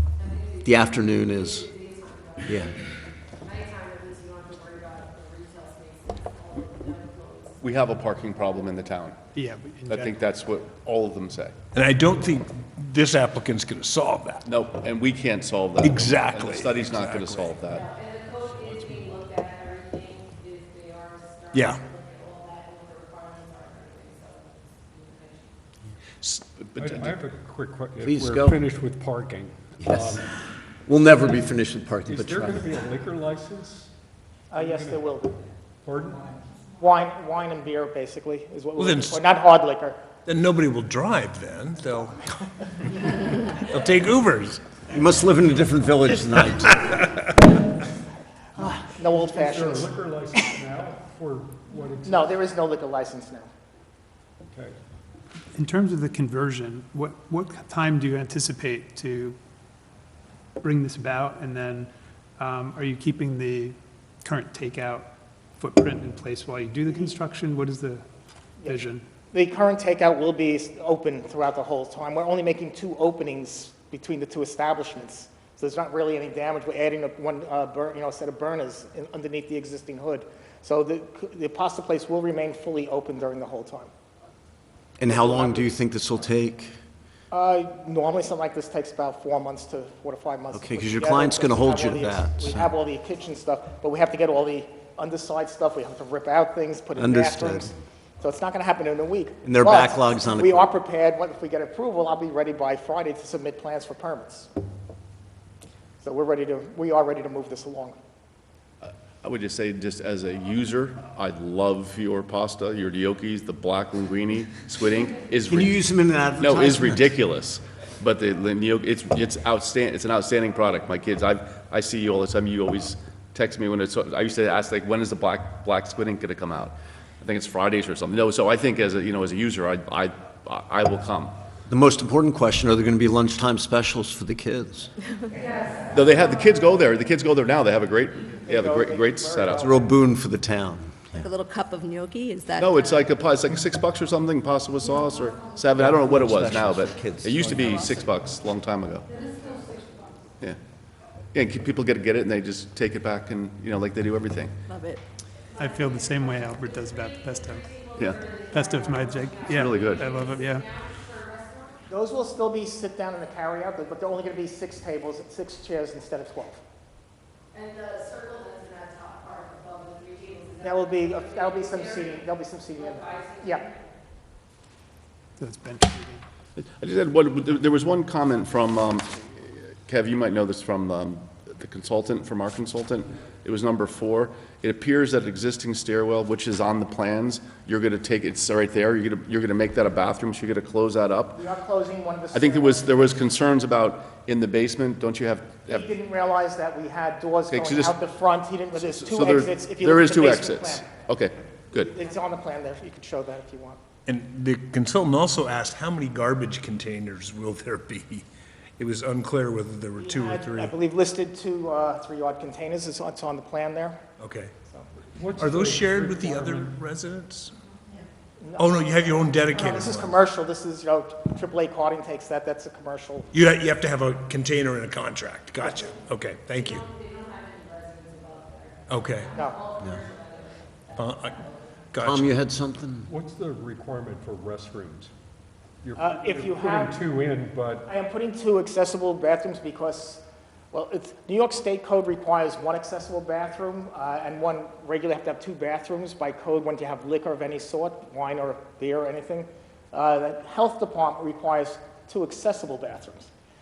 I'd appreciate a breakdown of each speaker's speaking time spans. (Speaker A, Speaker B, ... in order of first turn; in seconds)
Speaker A: 0.2-7.6, 17.7-25.6, 155.6-161.8, 167.5-172.2, 172.8-173.8, 226.6-231.8
Speaker B: 0.6-1.7, 2.5-2.8, 28.0-28.6, 29.8-30.2, 30.9-32.8, 44.9-47.0, 85.0-86.8, 90.5-92.7, 97.0-97.7, 99.4-100.7, 115.5-117.1, 131.7-134.9, 139.5-141.2, 145.8-148.0, 232.0-233.1
Speaker C: 7.6-9.2, 9.9-11.6, 14.4-17.9, 26.2-27.1, 108.8-115.8, 116.4-131.3, 135.9-139.7, 142.6-149.1, 151.3-154.6, 159.5-160.1, 176.6-191.4, 192.3-195.9, 197.5-198.0, 198.8-201.9
Speaker D: 9.3-10.1, 55.5-59.4, 60.6-68.1, 68.6-69.0, 155.6-157.7, 158.5-160.7, 175.4-176.2
Speaker E: 11.7-14.4, 15.8-17.6, 21.5-21.8, 38.8-39.2, 40.3-44.6, 204.1-208.2, 208.8-210.8, 214.2-214.5, 215.4-217.5, 218.6-220.2, 223.3-226.8, 228.9-229.3, 230.9-231.4, 231.9-232.3
Speaker F: 26.8-30.3, 32.0-33.9, 34.5-35.0, 35.8-36.3, 49.2-52.3, 215.2-216.8, 233.1-235.1, 235.8-237.9
Speaker G: 34.5-35.5, 36.7-40.0, 48.8-50.4, 52.0-53.5, 66.9-67.1, 69.3-83.9, 85.1-85.7, 87.3-104.5, 106.0-108.0, 138.5-139.8, 161.9-166.6, 170.6-173.7, 191.3-193.0, 195.7-201.0, 201.7-203.8, 210.0-214.0, 218.4-223.3, 229.3-229.7, 236.0-237.0, 237.9-253.3
Speaker H: 141.2-143.1, 154.7-155.0